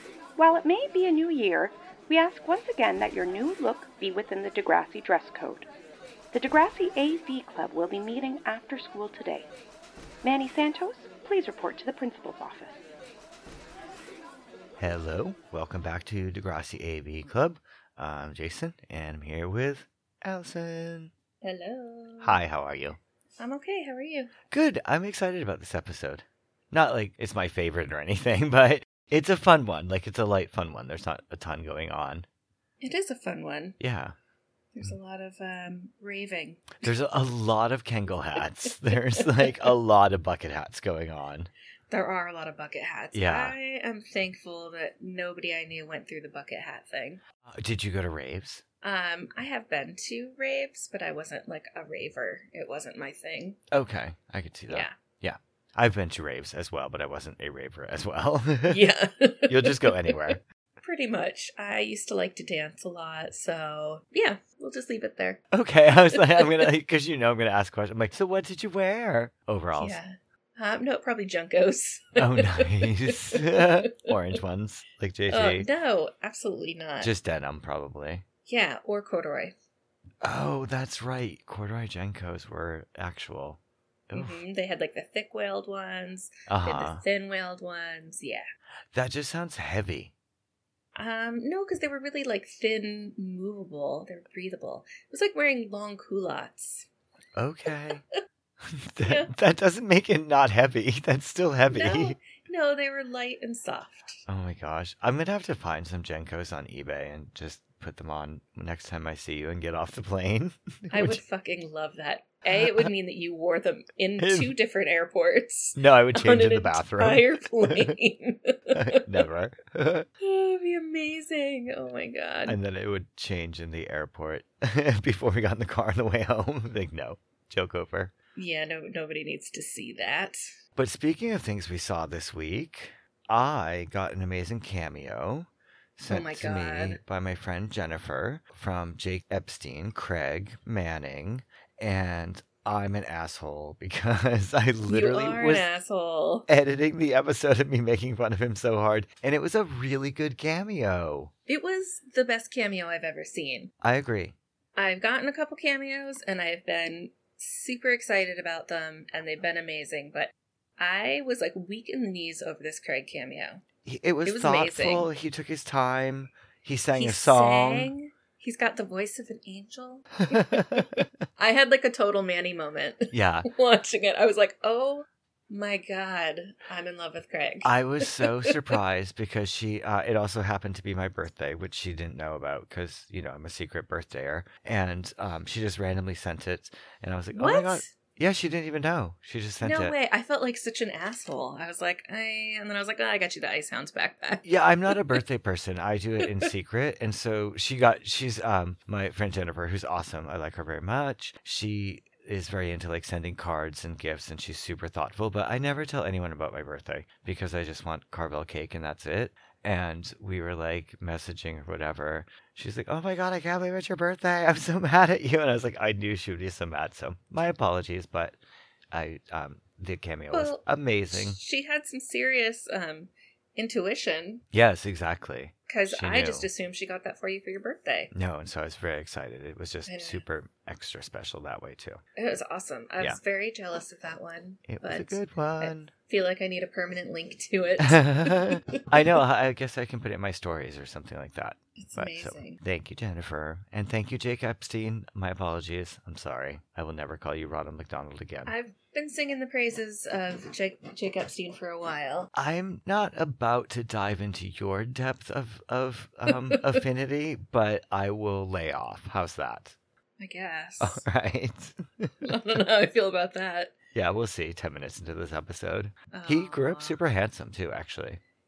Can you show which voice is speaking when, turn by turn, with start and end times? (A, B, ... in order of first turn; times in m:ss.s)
0:00.4-0:05.7 A
0:06.3-0:09.5 A
0:10.2-0:12.9 A
0:14.8-0:21.1 B
0:21.4-0:22.4 C
0:22.2-0:23.0 B
0:23.4-0:24.3 C
0:24.5-0:32.3 B
0:32.8-0:33.8 C
0:33.8-0:34.1 B
0:34.8-0:36.8 C
0:36.8-0:41.5 B
0:41.9-0:47.2 C
0:43.1-0:43.6 B
0:47.4-0:48.6 B
0:48.8-0:53.6 C
0:53.7-0:58.9 B
0:54.7-0:54.9 C
0:58.7-1:05.4 C
0:59.5-1:00.4 B
1:05.5-1:10.0 B
1:06.0-1:06.7 C
1:09.8-1:14.1 C
1:12.2-1:15.7 B
1:15.3-1:17.1 C
1:17.0-1:18.2 B
1:18.5-1:19.5 C
1:20.2-1:24.4 B
1:24.1-1:28.5 C
1:26.5-1:27.0 B
1:28.9-1:30.1 B
1:31.0-1:36.9 C
1:37.4-1:38.0 B
1:38.6-1:42.2 B
1:39.1-1:39.3 C
1:41.7-1:44.2 C
1:44.3-1:51.2 B
1:50.9-1:59.1 C
1:52.5-1:52.9 B
1:54.2-1:54.5 B
1:55.8-1:57.9 B
1:58.7-2:00.1 B
2:00.2-2:02.6 C
2:02.5-2:08.1 B
2:08.4-2:10.4 C
2:10.8-2:25.7 B
2:16.1-2:17.0 C
2:24.9-2:26.5 C
2:26.5-2:31.3 B
2:31.5-2:33.7 C
2:33.8-2:34.4 B
2:34.8-2:43.6 C
2:43.8-2:47.9 B
2:44.2-2:45.1 C
2:46.9-2:58.8 C
2:50.3-2:51.0 B
2:53.1-2:53.5 B
2:57.6-3:10.0 B
3:07.3-3:07.9 C
3:09.6-3:15.0 C
3:14.4-3:38.4 B
3:38.9-3:41.4 B
3:40.3-3:44.4 C
3:44.5-3:46.5 B
3:45.7-3:48.1 C
3:48.1-3:52.0 B
3:49.9-3:50.2 C
3:52.2-3:59.2 C
3:54.7-3:55.9 B
3:57.8-4:08.5 B
4:01.8-4:02.6 C
4:08.5-4:12.3 C
4:12.3-4:19.8 B
4:16.3-4:16.6 C
4:20.2-4:21.0 C
4:20.8-4:22.3 B
4:22.2-4:23.7 C
4:23.9-4:28.2 B
4:26.1-4:27.0 C